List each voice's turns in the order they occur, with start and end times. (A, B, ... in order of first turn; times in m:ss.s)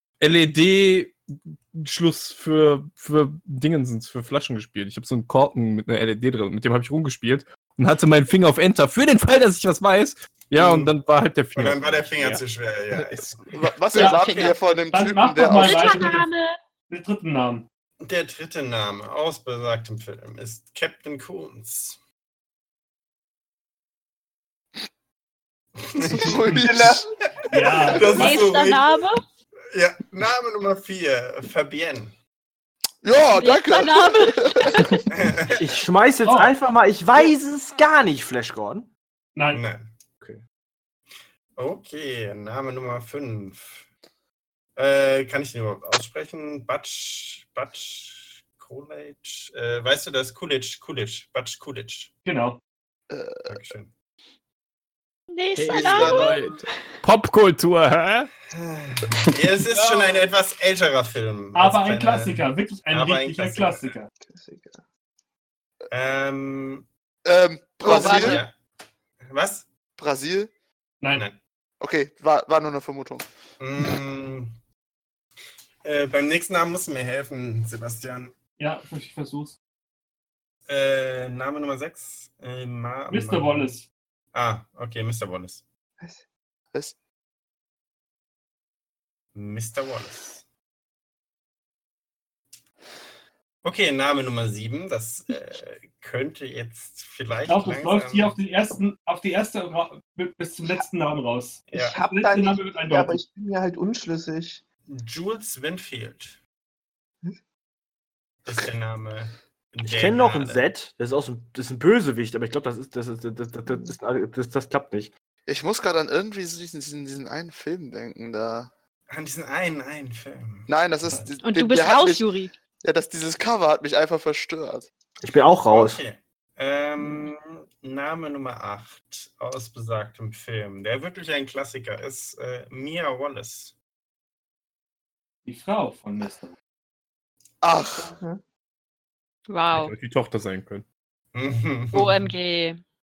0:00.2-0:13.6 A
0:10.6-0:10.9 B
0:11.6-0:13.5 B
0:13.5-0:16.0 C
0:13.9-0:14.6 D
0:14.0-0:14.2 E
0:14.9-0:16.3 E
0:15.5-0:16.6 D
0:16.9-0:17.7 E
0:18.0-0:22.0 B
0:25.8-0:26.4 B
0:26.0-0:27.1 C
0:26.2-0:27.0 F
0:27.5-0:28.4 E
0:27.5-0:28.9 B
0:28.0-0:29.2 D
0:29.7-0:32.2 B
0:33.0-0:34.8 C
0:33.4-0:35.0 D
0:35.1-0:35.6 B
0:35.6-0:38.9 G
0:36.2-0:36.5 E
0:39.4-0:39.6 E
0:39.5-0:39.9 B
0:41.6-0:43.9 B
0:44.8-0:52.1 B
0:52.2-0:52.6 E
0:53.1-0:53.6 C
0:53.5-0:53.9 B
0:55.3-0:56.5 D
0:55.6-0:58.3 A
0:55.7-0:56.4 C
0:58.5-1:04.0 B
0:59.8-1:00.2 E
1:01.6-1:04.1 E
1:04.3-1:04.8 F
1:05.9-1:06.9 B
1:07.2-1:08.4 C
1:07.8-1:08.6 B
1:07.9-1:08.4 D
1:09.2-1:09.7 B
1:10.0-1:10.5 C
1:11.0-1:11.3 E
1:11.1-1:11.4 B
1:11.8-1:13.3 C
1:13.6-1:14.6 B
1:15.8-1:18.4 B
1:18.6-1:19.6 E
1:20.7-1:23.7 B
1:23.1-1:23.9 E
1:24.3-1:25.6 B
1:29.4-1:30.4 B
1:33.6-1:38.4 B
1:37.5-1:43.2 E
1:41.7-1:42.0 B
1:41.7-1:44.6 F
1:44.9-1:46.4 B
1:48.4-1:50.6 B
1:49.8-1:55.1 G
1:55.5-1:58.7 C
1:59.1-2:00.7 B
2:00.7-2:02.3 C
2:01.4-2:02.5 D
2:02.8-2:04.9 C
2:05.2-2:06.0 G
2:05.7-2:13.7 B
2:15.4-2:16.5 E
2:17.6-2:18.2 C
2:18.0-2:18.4 F
2:19.5-2:19.9 D
2:19.7-2:20.8 A
2:21.3-2:22.3 B
2:21.9-2:22.8 D